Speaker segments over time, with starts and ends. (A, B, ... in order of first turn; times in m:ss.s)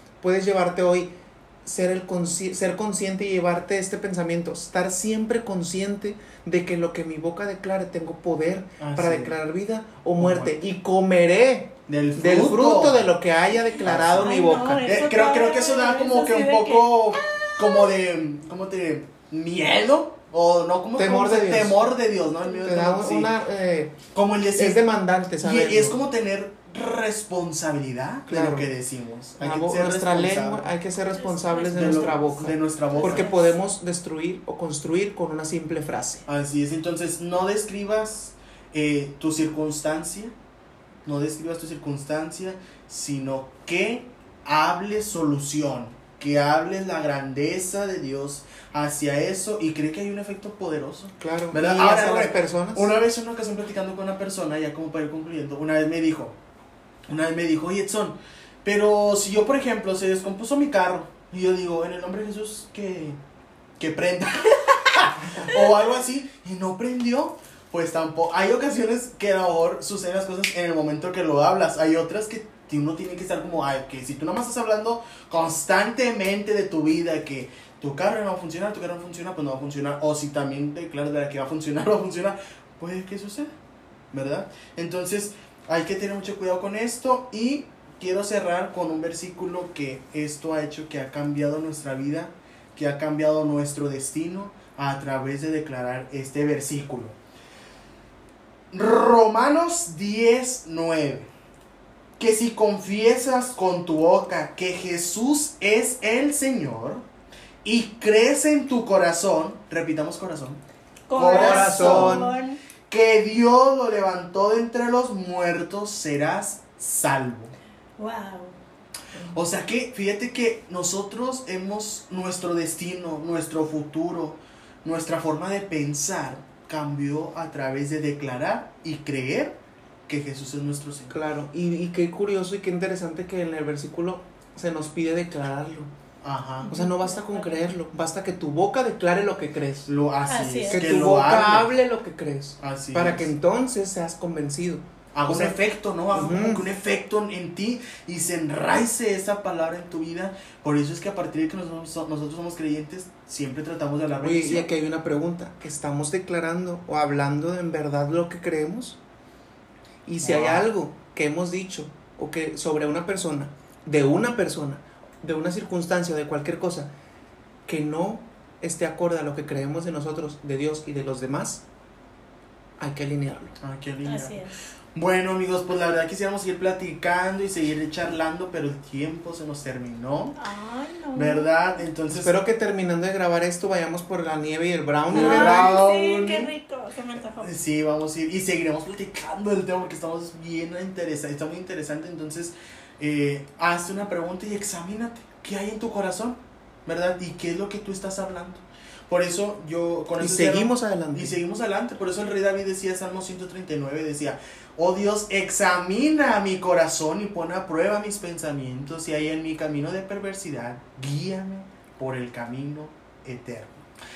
0:00.2-0:14.8 A
0:08.8-0:09.4 B
0:10.2-0:10.6 B
0:11.9-0:13.1 B
0:13.8-0:23.3 B
0:14.2-0:17.2 C
0:21.0-0:21.8 A
0:22.6-0:24.0 A
0:24.1-0:24.8 B
0:24.5-0:26.0 A
0:25.4-0:30.7 B
0:28.3-0:28.7 A
0:29.4-0:36.2 A
0:31.2-0:32.4 C
0:31.7-0:33.4 B
0:33.0-0:33.5 C
0:36.2-0:40.3 B
0:41.0-0:56.3 B
0:51.2-0:52.9 A
0:57.1-1:03.2 B
1:03.8-1:23.5 B
1:24.1-1:37.2 B
1:38.7-1:41.3 B
1:42.2-1:47.0 B
1:47.6-1:50.6 B
1:51.1-1:52.6 C
1:51.1-1:52.3 B
1:51.3-1:52.3 A
1:52.9-1:57.5 B
1:58.0-1:58.6 C
1:59.3-2:09.6 B
2:10.1-2:11.2 B
2:11.1-2:15.9 A
2:16.2-2:16.7 B
2:16.6-2:19.9 A
2:16.7-2:17.6 C
2:19.9-2:21.7 B
2:20.2-2:20.8 C
2:20.7-2:25.6 A
2:22.6-2:23.3 B
2:25.1-2:34.7 B
2:26.1-2:26.7 A
2:34.2-2:39.0 A
2:40.0-2:46.9 A
2:40.2-2:40.7 B
2:47.6-2:51.6 A
2:52.8-2:53.6 A
2:53.6-3:00.4 B
2:54.0-2:54.6 C
3:00.4-3:01.5 C
3:01.1-3:02.3 B
3:02.1-3:05.8 A
3:05.1-3:06.5 B
3:05.1-3:07.5 C
3:07.4-3:33.9 B
3:20.2-3:21.4 A